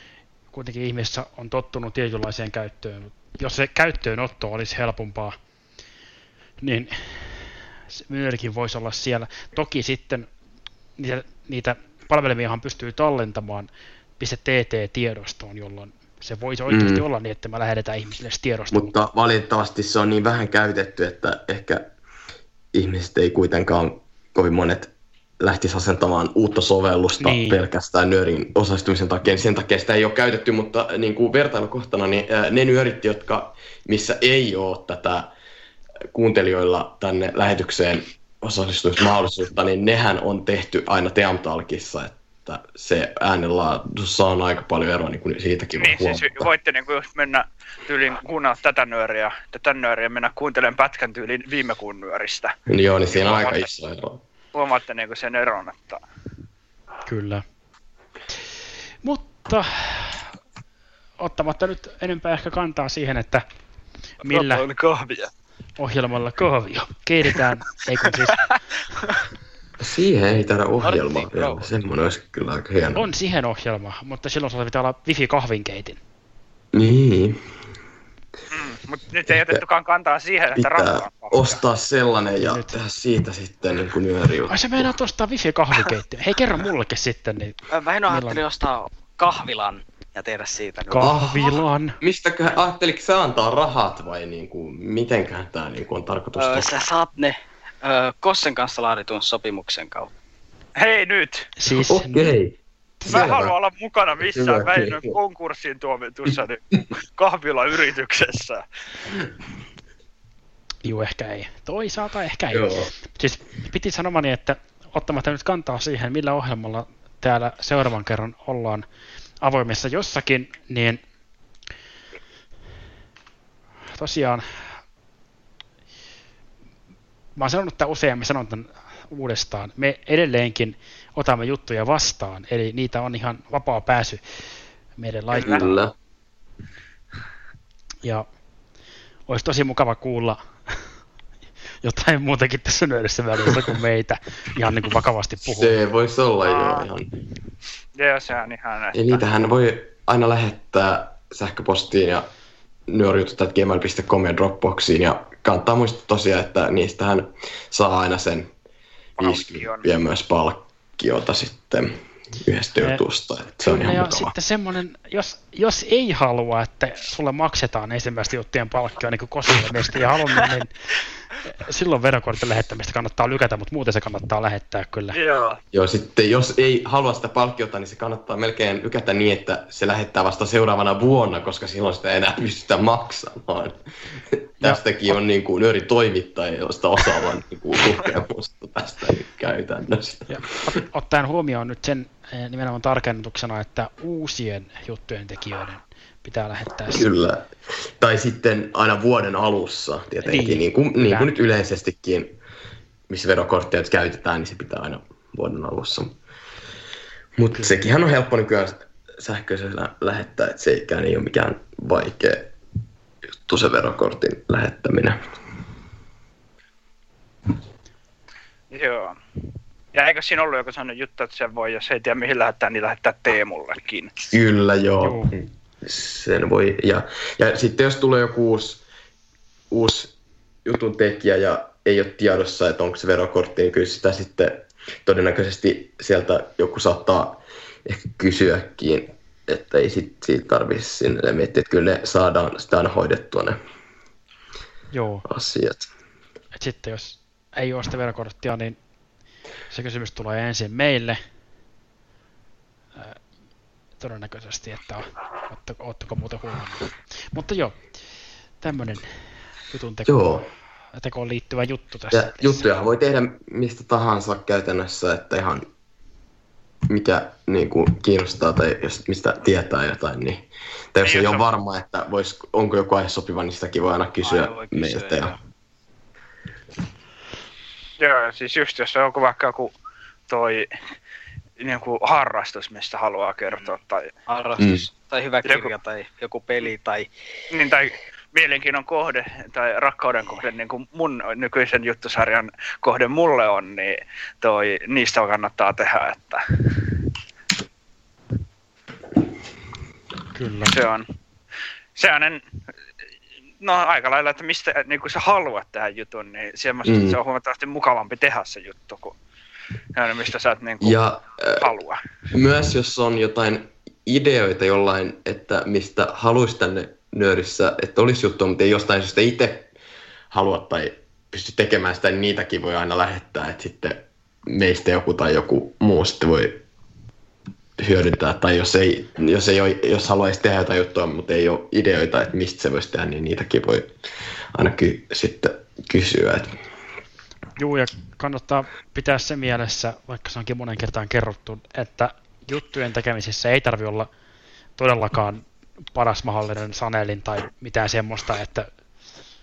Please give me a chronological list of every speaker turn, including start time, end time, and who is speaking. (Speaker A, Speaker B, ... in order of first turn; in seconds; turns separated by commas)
Speaker A: 0.5-5.4, Speaker A: 6.6-10.3, Speaker A: 11.0-18.9, Speaker B: 16.7-17.1, Speaker B: 18.7-21.9, Speaker B: 22.7-35.3, Speaker A: 27.2-27.6, Speaker B: 36.1-46.5, Speaker C: 45.8-52.5, Speaker B: 52.7-54.2, Speaker C: 53.1-53.7, Speaker C: 54.5-56.0, Speaker A: 57.1-57.4, Speaker A: 59.0-60.3, Speaker A: 61.2-63.4, Speaker D: 64.2-65.2, Speaker A: 64.2-64.6, Speaker C: 64.7-65.2, Speaker A: 65.8-68.4, Speaker B: 69.8-73.0, Speaker D: 70.8-71.7, Speaker A: 73.0-76.0, Speaker B: 76.7-77.4, Speaker C: 78.5-81.6, Speaker B: 79.3-79.6, Speaker B: 80.6-84.9, Speaker A: 82.4-82.8, Speaker A: 84.5-87.6, Speaker D: 87.7-91.1, Speaker A: 88.1-88.4, Speaker A: 90.9-92.0, Speaker B: 91.0-96.8, Speaker D: 96.4-100.1, Speaker C: 100.8-101.5, Speaker A: 101.6-102.3, Speaker B: 101.7-103.5, Speaker C: 103.0-108.6, Speaker B: 104.3-105.2, Speaker A: 110.8-118.8, Speaker B: 112.5-112.9, Speaker A: 119.4-121.0, Speaker A: 123.9-124.8, Speaker A: 127.4-135.8, Speaker B: 135.3-135.9, Speaker A: 139.3-140.8, Speaker A: 141.8-145.8, Speaker B: 145.4-147.1, Speaker C: 146.4-146.9, Speaker C: 148.0-149.2, Speaker B: 148.9-152.3, Speaker B: 152.9-158.5, Speaker C: 159.2-159.9, Speaker B: 159.2-164.3, Speaker A: 163.6-170.7, Speaker A: 171.4-175.2, Speaker C: 175.1-175.6, Speaker B: 175.7-183.8, Speaker B: 184.6-190.4, Speaker A: 184.6-185.2, Speaker A: 190.3-197.0, Speaker B: 196.9-202.3, Speaker A: 200.2-201.3, Speaker B: 203.1-206.2, Speaker B: 207.4-212.5, Speaker B: 213.4-215.2, Speaker C: 218.7-219.2, Speaker C: 219.9-224.1, Speaker B: 224.3-228.8, Speaker A: 225.0-225.3, Speaker B: 229.7-230.1, Speaker B: 230.7-243.6, Speaker A: 244.9-245.2, Speaker B: 245.3-245.9, Speaker A: 246.5-248.8, Speaker A: 249.7-251.2, Speaker A: 254.0-257.8, Speaker A: 258.6-259.1, Speaker A: 259.7-260.2, Speaker B: 260.1-260.5, Speaker A: 260.9-262.7, Speaker B: 262.1-265.7, Speaker B: 266.9-275.3, Speaker C: 271.0-271.5, Speaker D: 274.2-275.4, Speaker C: 278.0-279.7, Speaker C: 280.3-280.7, Speaker C: 281.6-284.1, Speaker D: 283.5-283.8, Speaker D: 284.3-287.1, Speaker B: 284.6-284.9, Speaker C: 285.4-285.7, Speaker C: 287.5-296.8, Speaker A: 300.4-300.8, Speaker C: 300.7-301.1, Speaker C: 302.0-302.4, Speaker C: 303.6-309.2, Speaker B: 306.9-307.2, Speaker C: 309.9-311.0, Speaker B: 310.8-311.7, Speaker C: 311.6-312.0, Speaker B: 312.3-319.7, Speaker B: 320.3-326.6, Speaker B: 327.8-333.9, Speaker B: 334.6-336.5, Speaker A: 337.6-344.1, Speaker A: 344.8-345.4, Speaker A: 345.9-348.7